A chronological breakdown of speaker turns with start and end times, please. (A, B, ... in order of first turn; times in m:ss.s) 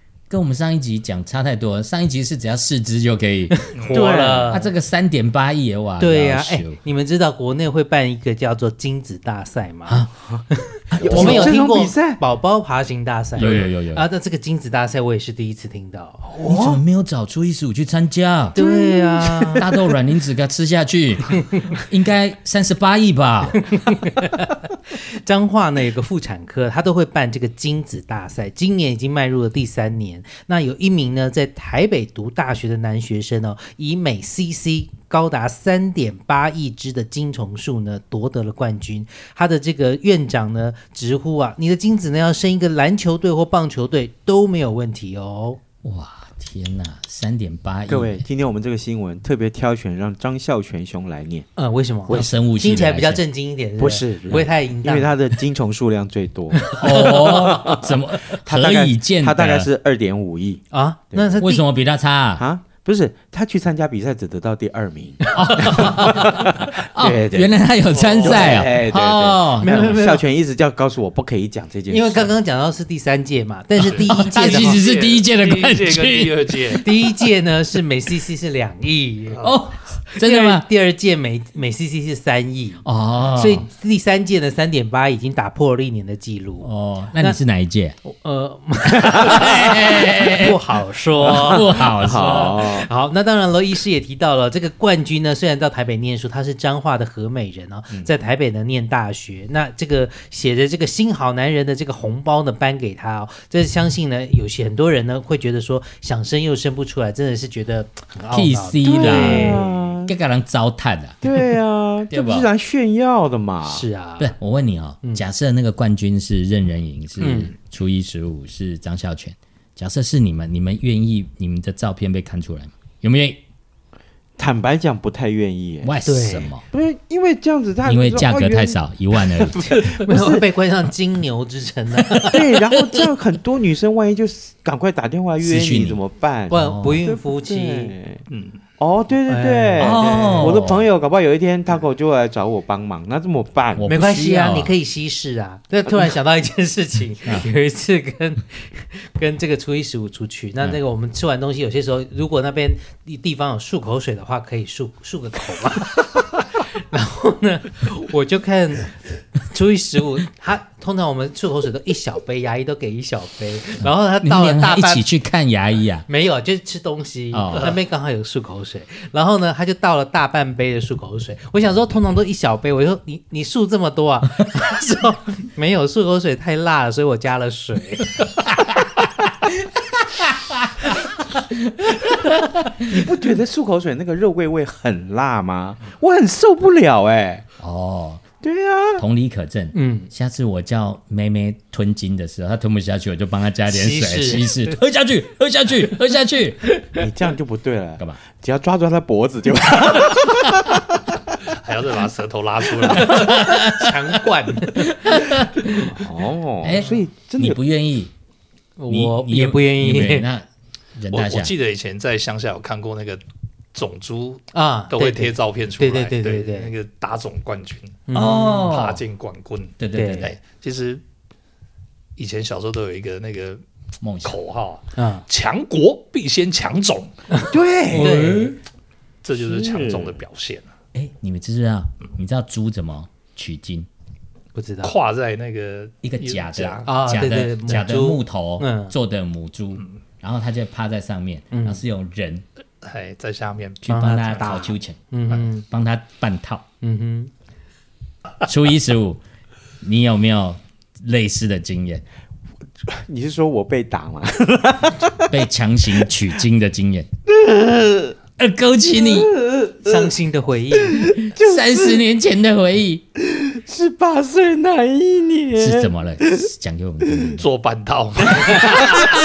0:00.3-0:03.6 A
0:03.6-0:04.7 B
0:03.7-0:04.0 C
0:03.9-0:04.6 D
0:04.5-0:06.8 A
0:06.0-0:16.4 B
0:10.9-0:12.2 D
0:11.0-0:11.5 A
0:13.4-0:14.0 A
0:16.3-0:16.8 D
0:16.5-0:18.6 A
0:18.5-0:19.6 B
0:18.6-0:19.8 D
0:19.6-0:23.6 A
0:23.7-0:45.6 B
0:45.8-0:48.2 A
0:47.9-0:51.4 D
0:51.6-0:55.1 B
0:52.1-0:53.2 A
0:53.8-0:56.7 D
0:56.7-0:57.5 B
0:56.7-0:59.7 A
0:57.4-1:01.4 D
1:00.7-1:01.6 B
1:01.4-1:02.4 A
1:02.4-1:07.5 D
1:05.3-1:09.9 A
1:07.9-1:08.6 C
1:08.2-1:12.3 D
1:09.6-1:10.2 B
1:11.9-1:14.8 B
1:13.8-1:16.8 C
1:14.0-1:16.8 A
1:16.8-1:19.6 B
1:19.4-1:20.6 A
1:20.1-1:27.4 B
1:22.8-1:23.6 A
1:26.6-1:28.0 A
1:28.0-1:49.9 B
1:29.0-1:30.6 A
1:31.2-1:32.6 A
1:31.3-1:32.9 D
1:48.3-1:49.4 A
1:48.8-1:50.1 D
1:50.0-1:51.2 A
1:51.2-1:53.8 D
1:52.1-1:52.5 A
1:53.6-1:54.3 B
1:54.2-2:03.4 A
1:57.2-1:57.5 B
2:04.4-2:05.9 D
2:05.8-2:06.6 A
2:06.0-2:06.5 B
2:06.7-2:10.4 D
2:07.8-2:09.6 A
2:09.7-2:12.5 B
2:12.3-2:18.2 D
2:15.4-2:17.0 A
2:16.5-2:17.9 B
2:18.3-2:18.6 C
2:18.8-2:23.8 D
2:19.2-2:20.6 B
2:19.8-2:20.8 A
2:23.8-2:24.7 A
2:23.8-2:45.1 B
2:43.8-2:46.0 A
2:46.1-2:58.5 B
2:47.3-2:47.7 A
3:02.8-3:07.4 D
3:07.6-3:08.2 A
3:08.4-3:09.0 D
3:09.0-3:16.6 A
3:09.7-3:10.1 B
3:13.7-3:14.7 B
3:16.9-3:20.8 D
3:21.6-3:23.4 C
3:22.9-3:25.2 B
3:22.9-3:23.9 A
3:24.8-3:26.0 A
3:26.0-3:27.6 D
3:26.6-3:28.1 A
3:28.8-3:30.3 B
3:28.9-3:31.5 A
3:31.1-3:33.2 C
3:33.7-3:38.1 C
3:34.5-3:36.7 B
3:38.1-3:38.7 B
3:38.1-3:39.0 A
3:38.6-3:41.0 C
3:39.8-3:40.2 A
3:39.9-3:40.4 B
3:42.2-3:43.6 C
3:44.0-3:44.4 A
3:44.2-3:47.4 C
3:45.0-3:45.2 B
3:47.3-3:48.6 B
3:47.5-3:48.4 D
3:47.9-3:48.5 A
3:49.2-3:50.7 C
3:49.4-3:50.2 D
3:50.9-3:53.9 A
3:54.5-3:54.9 B
3:54.8-3:56.9 C
3:56.0-4:02.4 A
3:56.8-3:58.9 B
4:01.5-4:01.8 B
4:02.8-4:03.9 C
4:03.8-4:05.0 A
4:03.9-4:05.6 B
4:05.7-4:06.6 A
4:06.8-4:07.3 B
4:08.4-4:09.2 A
4:09.8-4:12.0 A
4:12.8-4:15.3 D
4:15.3-4:17.1 A
4:17.3-4:18.1 D
4:18.4-4:19.4 A
4:19.0-4:20.1 D
4:19.8-4:21.1 B
4:21.0-4:23.1 A
4:21.0-4:22.0 D
4:23.2-4:26.4 D
4:25.6-4:27.4 A
4:27.4-4:29.1 C